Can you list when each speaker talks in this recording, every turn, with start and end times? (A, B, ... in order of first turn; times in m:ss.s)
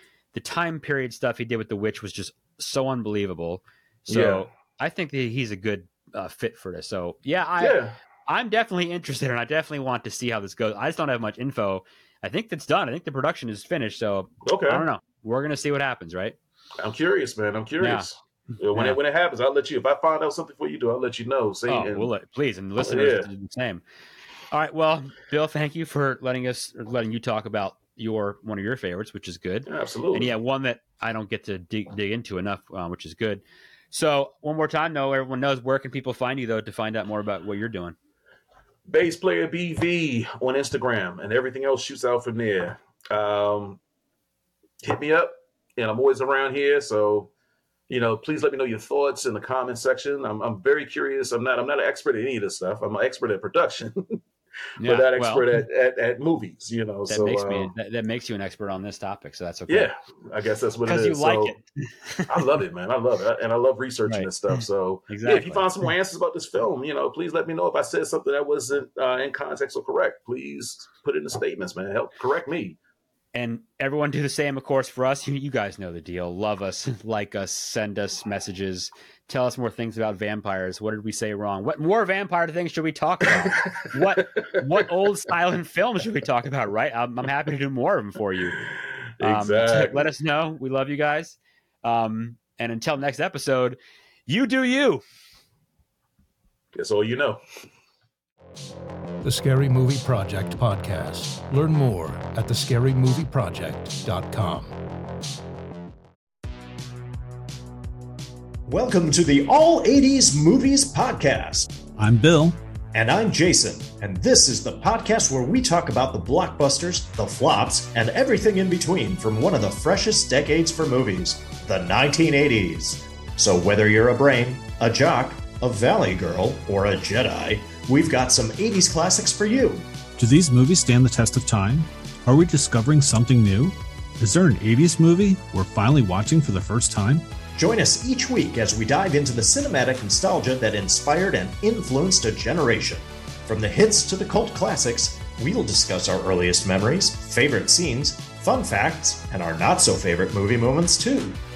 0:00.3-0:16.4 A
0:04.1-0:04.4 B
0:07.6-0:08.0 B
0:14.4-0:14.8 B
0:16.8-0:22.1 B
0:17.8-0:18.1 A
0:21.7-0:23.8 A
0:22.8-0:23.3 B
0:24.5-0:38.0 A
0:29.6-0:30.3 B
0:38.9-0:43.8 B
0:44.8-0:47.3 B
0:47.9-0:54.2 B
0:54.8-0:55.5 A
0:54.8-0:57.7 B
0:57.1-0:59.9 A
0:59.7-1:01.6 B
1:00.8-1:02.4 A
1:02.3-1:12.8 B
1:05.1-1:05.7 A
1:13.3-1:28.6 A
1:23.6-1:24.6 B
1:29.2-1:30.1 B
1:29.2-1:35.0 A
1:36.7-1:37.4 B
1:39.2-1:44.7 C
1:48.7-1:51.7 D
1:52.0-1:52.6 E
1:52.9-2:09.8 D
2:10.2-2:17.2 E
2:17.5-2:31.4 D